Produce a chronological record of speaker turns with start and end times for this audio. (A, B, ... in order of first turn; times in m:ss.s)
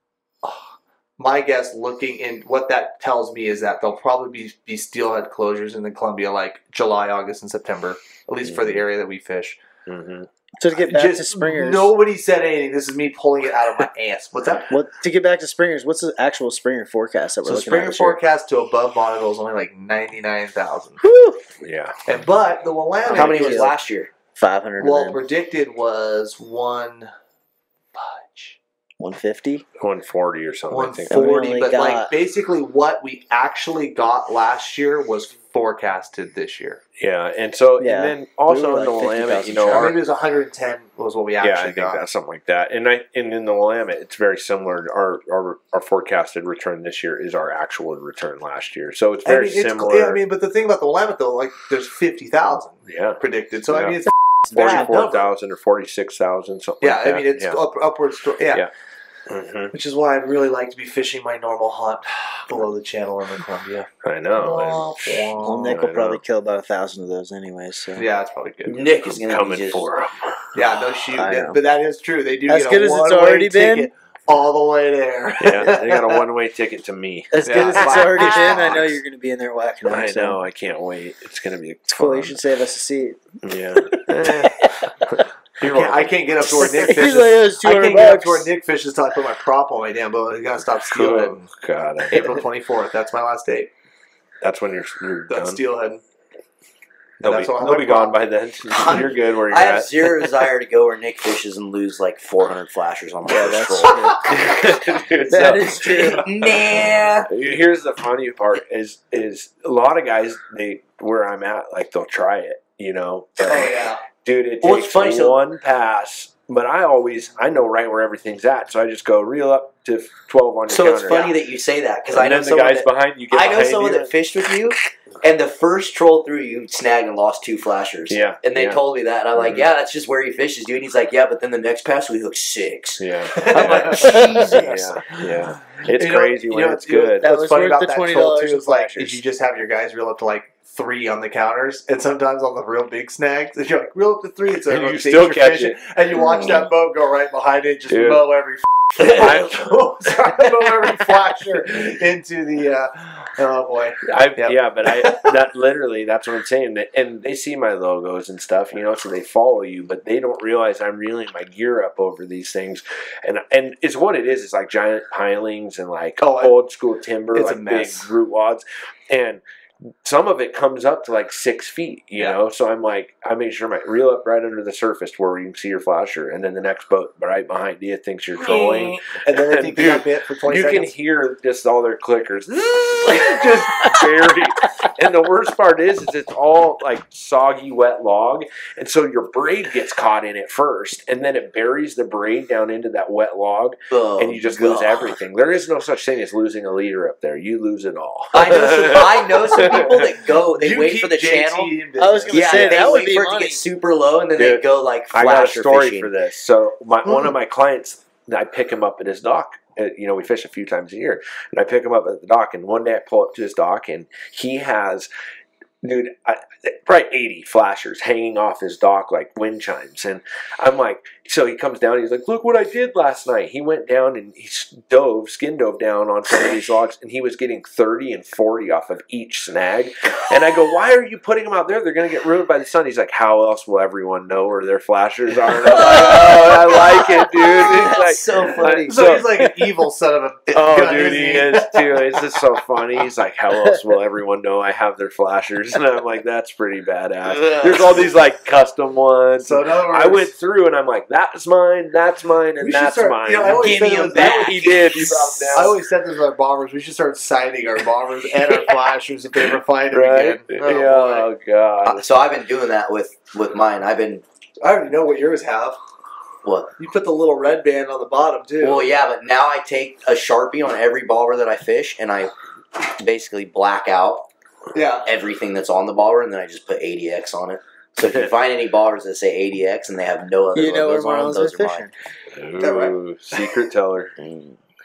0:00.4-0:09.6 A
0:08.4-0:08.8 B
0:09.9-0:10.3 B
0:10.6-0:11.9 C
0:10.8-0:14.7 A
0:14.7-0:18.2 C
0:17.4-0:21.0 A
0:21.0-0:21.3 C
0:21.6-0:22.0 B
0:22.0-0:23.7 A
0:23.1-0:24.1 D
0:23.1-0:23.7 C
0:24.4-0:25.2 C
0:24.8-0:27.1 A
0:27.9-0:28.6 A
0:29.0-0:29.6 C
0:29.8-0:31.3 B
0:30.7-0:36.8 A
0:31.1-0:32.1 C
0:37.0-0:40.0 B
0:37.8-0:39.9 C
0:39.7-0:42.0 A
0:41.4-0:50.2 B
0:49.2-0:55.3 A
0:52.8-0:54.0 B
0:54.5-0:57.6 B
0:56.8-0:58.7 A
0:59.3-0:59.7 B
0:59.7-1:05.8 A
1:04.0-1:06.2 B
1:05.4-1:08.0 C
1:07.9-1:08.9 A
1:08.6-1:09.9 D
1:09.1-1:10.4 B
1:10.5-1:16.2 A
1:11.1-1:11.6 C
1:12.5-1:13.9 C
1:15.4-1:18.8 B
1:17.3-1:20.4 C
1:17.4-1:19.0 A
1:19.9-1:22.4 B
1:21.9-1:24.7 C
1:23.4-1:25.1 B
1:25.6-1:31.5 A
1:25.6-1:26.7 B
1:26.4-1:28.5 C
1:30.9-1:32.4 B
1:32.0-1:33.7 A
1:34.4-1:35.6 B
1:35.3-1:36.0 A
1:37.2-1:40.5 B
1:37.2-1:38.2 A
1:38.7-1:44.1 D
1:43.3-1:44.4 C
1:44.2-2:01.4 B
1:45.3-1:46.3 C
1:45.8-1:47.3 D
1:53.4-1:54.0 A
1:54.6-1:55.4 D
2:00.7-2:14.9 D
2:02.1-2:04.1 B
2:08.1-2:08.8 B
2:09.3-2:09.6 B
2:13.0-2:17.3 B
2:13.4-2:35.4 A
2:17.2-2:19.2 C
2:24.7-2:25.8 B
2:27.9-2:28.2 B
2:29.0-2:30.1 B
2:34.0-2:49.4 B
2:46.2-2:46.6 A
2:47.3-2:48.1 A
2:50.0-3:20.1 B
2:58.4-3:00.9 A
3:13.9-3:15.2 D
3:18.3-3:21.7 D
3:20.5-3:22.8 A
3:22.0-3:23.6 C
3:22.3-3:26.1 D
3:24.4-3:35.1 B
3:27.0-3:27.3 A
3:35.8-3:59.5 B
3:55.6-3:59.0 D
3:58.8-4:02.4 A
4:00.5-4:15.8 B
4:07.2-4:08.0 D
4:09.4-4:10.3 A
4:12.6-4:21.3 A
4:13.5-4:15.7 D
4:18.4-4:18.9 B
4:19.4-4:22.2 B
4:21.8-4:24.2 D
4:24.6-4:25.8 A
4:26.4-4:26.7 D
4:26.8-4:28.9 A
4:28.6-4:34.3 D
4:34.7-4:35.1 A
4:35.0-4:41.9 D
4:40.5-4:41.9 C
4:42.3-4:44.1 B
4:42.6-4:42.9 A
4:44.2-4:44.6 D